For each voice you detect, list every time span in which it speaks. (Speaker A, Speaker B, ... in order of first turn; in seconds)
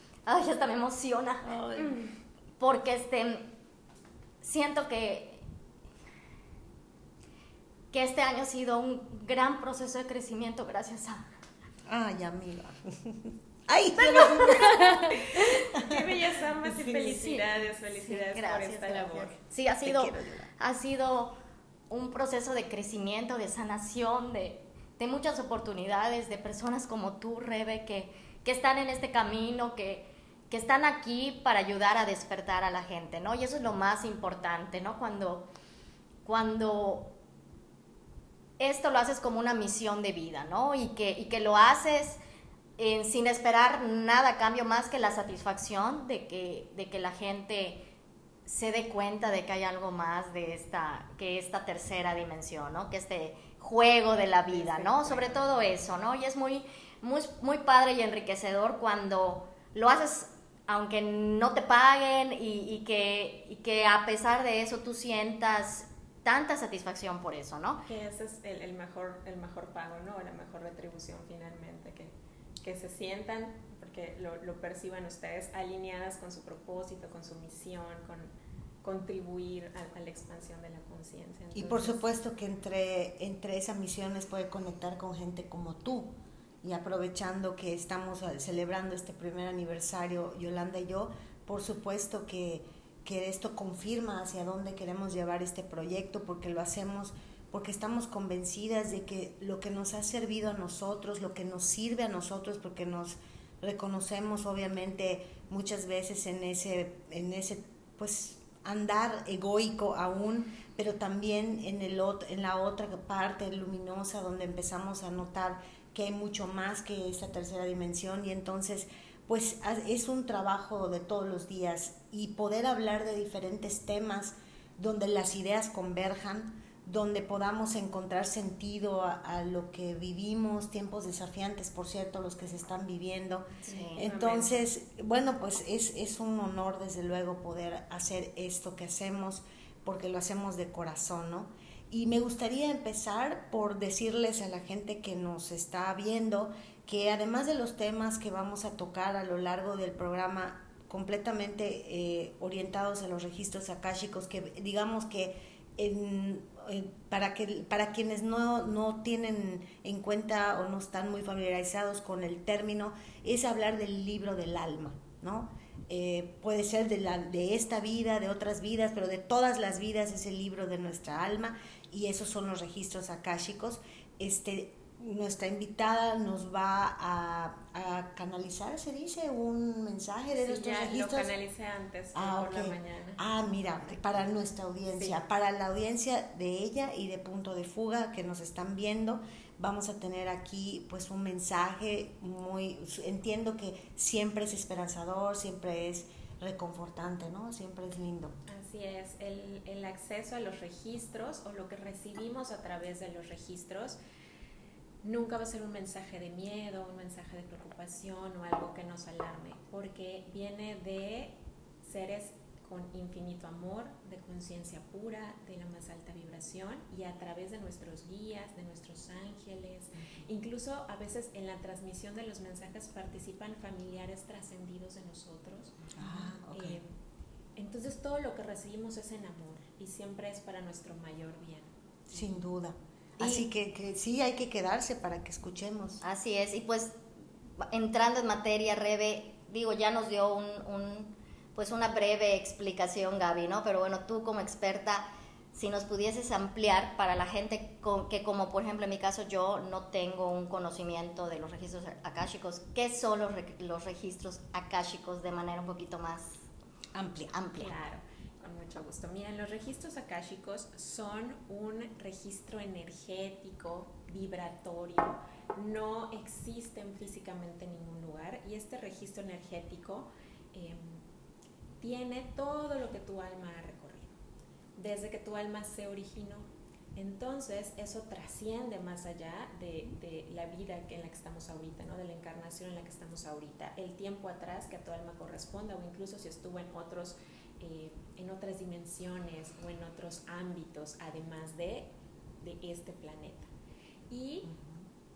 Speaker A: 0.2-2.0, 2.6-3.5, 4.4-5.4, 7.9-11.2, 14.0-15.4, 16.8-21.3, 21.9-35.5, 36.2-37.1, 38.6-42.2, 42.8-47.8, 48.5-67.8, 133.7-134.0, 233.2-233.5, 236.0-236.9, 237.6-256.4, 257.3-257.7
Speaker B: 11.9-15.1, 15.7-16.0, 19.8-20.5, 81.5-86.1, 86.6-181.3, 182.1-198.3, 225.9-226.8, 232.1-236.0, 256.9-257.3, 294.4-294.9
Speaker C: 14.2-19.4, 54.5-55.7, 67.8-72.1, 72.6-78.3, 78.8-82.0, 133.7-134.6, 180.4-183.2, 198.5-204.0, 205.0-225.9, 226.5-226.9, 227.6-231.7, 257.5-271.0, 271.8-274.1, 274.8-291.9, 292.4-293.5, 294.1-294.5